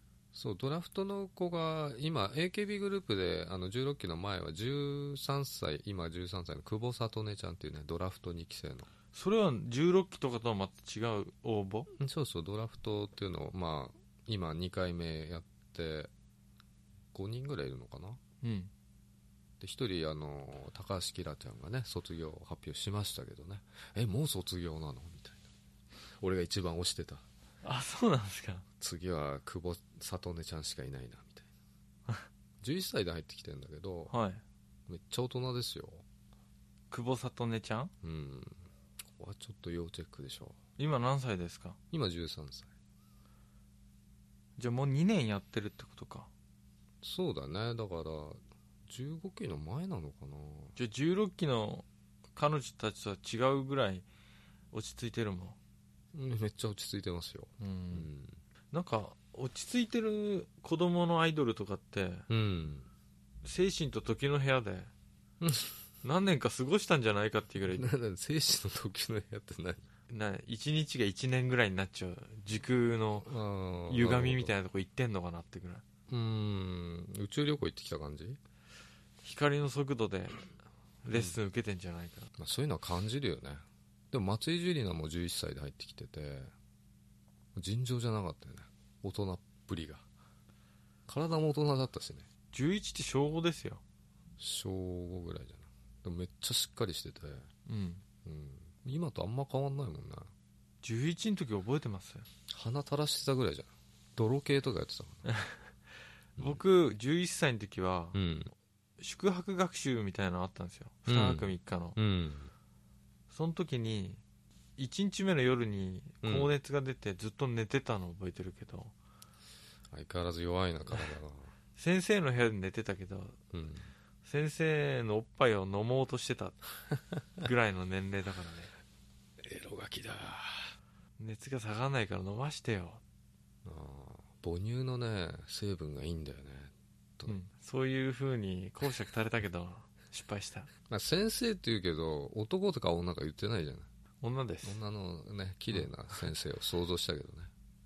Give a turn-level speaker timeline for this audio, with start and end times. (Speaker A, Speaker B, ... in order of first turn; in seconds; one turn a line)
Speaker A: 0.3-8.9
Speaker B: 9.1-11.9
Speaker A: 11.9-16.1
Speaker A: 17.1-18.2
Speaker B: 18.4-18.7
Speaker A: 19.6-25.4
Speaker A: 26.2-27.2
Speaker B: 27.6-28.6
Speaker A: 28.8-31.5
Speaker A: 32.6-34.1
Speaker B: 34.1-34.4
Speaker A: 34.9-36.0
Speaker B: 36.9-37.9
Speaker A: 38.0-40.6
Speaker B: 40.8-41.8
Speaker A: 41.9-42.7
Speaker B: 44.6-46.3
Speaker A: 47.0-50.7
Speaker B: 50.8-54.0
Speaker B: 54.7-55.6
Speaker A: 56.1-58.4
Speaker B: 57.6-58.1
Speaker B: 58.7-62.3
Speaker A: 62.3-62.9
Speaker B: 63.4-64.9
Speaker A: 65.4-65.8
Speaker B: 66.0-67.9
Speaker A: 67.7-69.8
Speaker B: 70.1-73.3
Speaker A: 73.2-74.5
Speaker B: 73.9-75.8
Speaker A: 76.1-78.4
Speaker B: 79.2-80.5
Speaker B: 81.0-82.3
Speaker A: 82.4-86.5
Speaker A: 87.5-90.0
Speaker A: 91.1-92.3
Speaker B: 92.5-93.8
Speaker A: 94.4-97.5
Speaker B: 97.7-98.0
Speaker A: 98.2-100.3
Speaker B: 100.8-102.3
Speaker A: 102.5-105.2
Speaker B: 105.3-105.6
Speaker B: 106.4-108.2
Speaker A: 108.1-108.5
Speaker B: 109.0-112.0
Speaker A: 111.1-112.5
Speaker B: 113.3-114.2
Speaker B: 114.8-118.9
Speaker A: 116.2-116.5
Speaker A: 119.9-121.5
Speaker B: 121.8-123.4
Speaker A: 123.5-123.9
Speaker B: 124.2-126.6
Speaker B: 127.4-128.7
Speaker A: 129.4-130.7
Speaker B: 131.2-133.0
Speaker A: 133.6-137.4
Speaker B: 137.3-140.7
Speaker A: 140.9-143.9
Speaker B: 144.2-144.8
Speaker A: 144.6-147.5